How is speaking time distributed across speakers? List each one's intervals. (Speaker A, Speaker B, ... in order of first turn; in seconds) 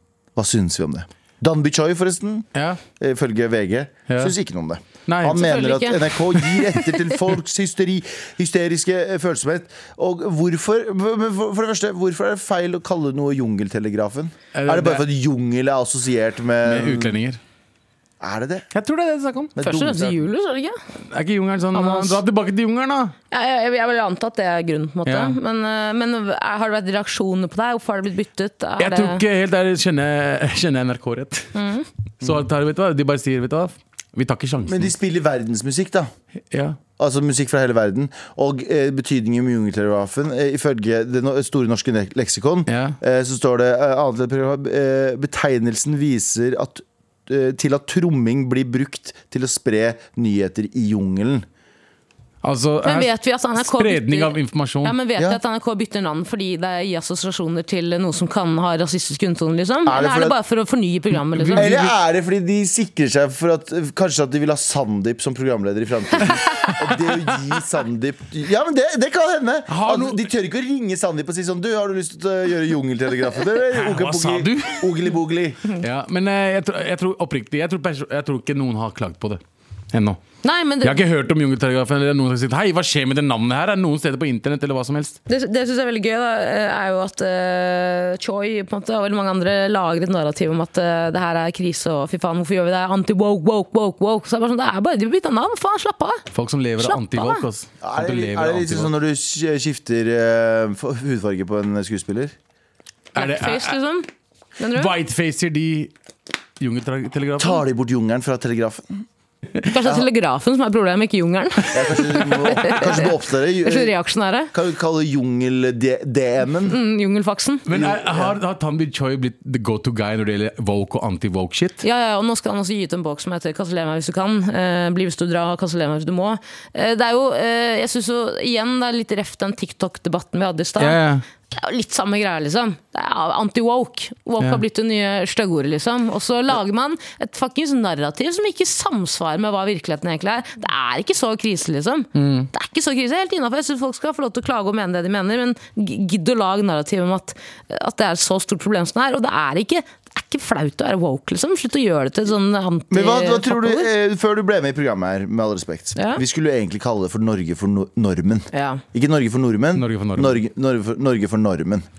Speaker A: 0.4-2.5, 3.0-17.2, 18.2-18.7, 19.6-20.2, 34.6-36.1, 37.0-51.5, 59.9-60.4, 61.6-75.7, 97.8-102.3, 107.4-109.0, 111.7-113.9, 114.5-116.8, 117.7-118.4, 152.9-161.8
Speaker B: 2.5-2.8, 4.1-4.3, 5.1-5.4, 14.5-15.1, 16.6-17.4, 18.7-19.5, 21.1-23.1, 25.1-25.4, 28.8-31.6, 32.2-34.9, 36.5-36.8, 42.7-43.0, 52.4-55.0, 61.4-61.7, 69.7-70.3, 73.6-74.9, 75.8-79.4, 79.9-80.2, 80.8-85.2, 96.3-98.9, 103.2-103.8, 104.7-105.9, 106.6-107.6, 112.3-112.8, 117.7-121.8, 130.8-131.2, 142.2-142.5, 159.8-160.4
Speaker C: 5.4-7.0, 19.6-20.8, 21.7-22.2, 23.3-29.2, 31.6-31.9, 52.8-61.9, 80.4-81.0, 85.3-96.2, 96.8-97.5, 103.2-104.1, 104.6-104.9, 109.6-114.5, 116.7-117.7, 121.8-131.0, 131.5-153.9, 156.0-156.2, 158.5-158.8